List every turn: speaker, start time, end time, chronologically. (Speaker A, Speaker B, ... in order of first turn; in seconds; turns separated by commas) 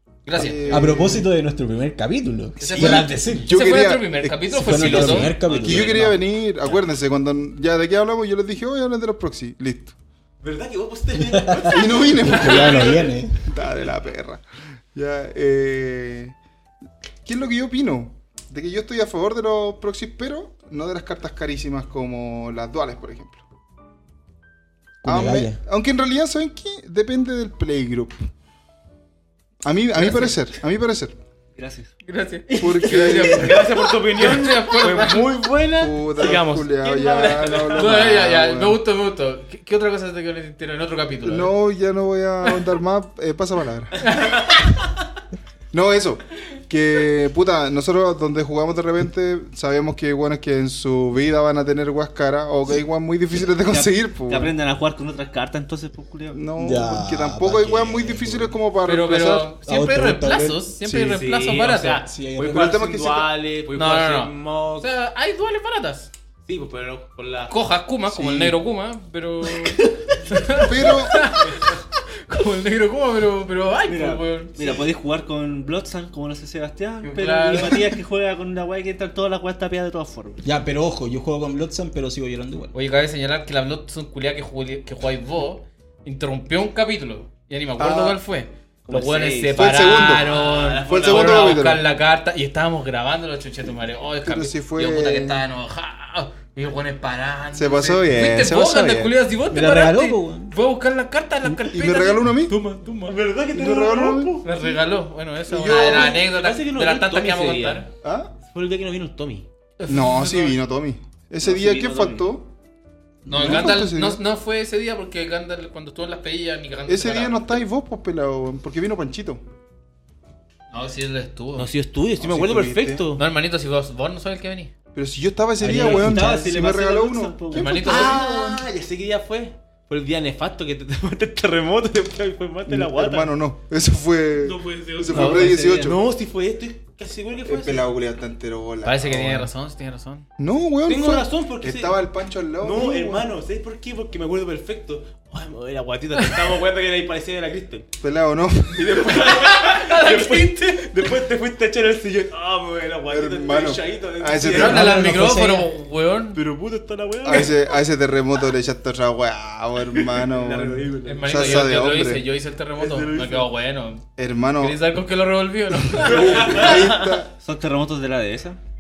Speaker A: 0.3-1.0, Speaker B: 0.3-1.3, Speaker C: 0.7-3.5, Speaker D: 2.6-3.2, Speaker B: 2.6-9.9, Speaker A: 3.4-5.6, Speaker C: 4.5-6.2, Speaker D: 5.4-6.0, Speaker D: 10.4-13.1, Speaker C: 11.2-13.5, Speaker B: 11.7-16.4, Speaker B: 17.2-23.4, Speaker B: 25.0-28.2, Speaker C: 25.0-25.6, Speaker B: 29.6-31.2, Speaker E: 31.6-31.9, Speaker A: 32.1-35.3, Speaker B: 32.6-33.7, Speaker C: 32.6-33.2, Speaker D: 32.9-38.1, Speaker B: 34.8-35.2, Speaker B: 35.8-38.8, Speaker A: 37.7-41.5, Speaker B: 41.2-44.0, Speaker A: 44.0-44.4, Speaker B: 45.7-54.6, Speaker E: 53.5-56.5, Speaker B: 56.3-59.5, Speaker C: 56.6-58.6, Speaker A: 58.8-62.1, Speaker C: 59.6-60.9, Speaker D: 60.9-64.9, Speaker C: 62.0-62.8, Speaker B: 62.4-63.3, Speaker A: 63.7-66.1, Speaker D: 66.5-67.5, Speaker A: 67.5-74.8, Speaker B: 70.5-71.2, Speaker E: 73.9-80.4, Speaker A: 77.0-77.9, Speaker C: 80.4-82.7, Speaker A: 82.7-103.2, Speaker B: 87.8-88.2, Speaker D: 88.9-91.5, Speaker E: 89.0-89.5, Speaker B: 89.5-91.8, Speaker E: 90.3-91.4, Speaker B: 94.2-95.5, Speaker B: 97.5-99.2, Speaker C: 99.5-100.5, Speaker B: 101.7-102.5, Speaker D: 103.1-104.5, Speaker B: 103.5-104.5, Speaker A: 104.4-107.9, Speaker B: 105.5-106.2, Speaker D: 105.7-107.9, Speaker B: 108.0-108.3, Speaker D: 108.5-109.5, Speaker A: 109.8-110.6, Speaker B: 109.9-112.5, Speaker E: 111.4-112.3, Speaker B: 113.3-114.2, Speaker A: 113.3-117.5, Speaker B: 116.9-119.4, Speaker A: 120.7-121.7, Speaker D: 121.6-123.2, Speaker B: 122.2-123.0, Speaker A: 123.2-124.7, Speaker B: 124.9-128.6, Speaker C: 125.6-126.5, Speaker E: 125.6-128.1, Speaker A: 127.5-128.3, Speaker D: 127.9-133.3, Speaker B: 132.7-136.0, Speaker D: 134.4-137.9, Speaker A: 135.1-135.6, Speaker E: 135.1-135.9, Speaker B: 137.4-139.3, Speaker A: 138.8-140.3, Speaker D: 139.1-139.5, Speaker B: 140.4-143.3, Speaker D: 140.9-142.0, Speaker D: 142.6-147.9, Speaker A: 146.2-146.5, Speaker B: 148.0-149.2, Speaker D: 148.8-154.9, Speaker A: 149.2-151.1, Speaker B: 153.1-154.9, Speaker A: 154.5-156.4, Speaker C: 154.5-155.7, Speaker D: 156.3-157.7, Speaker B: 157.2-162.3, Speaker D: 159.9-161.9, Speaker A: 161.1-164.1, Speaker D: 162.8-163.5, Speaker B: 164.2-164.8, Speaker A: 164.6-166.8, Speaker B: 165.9-167.3, Speaker D: 165.9-167.2, Speaker E: 167.4-168.6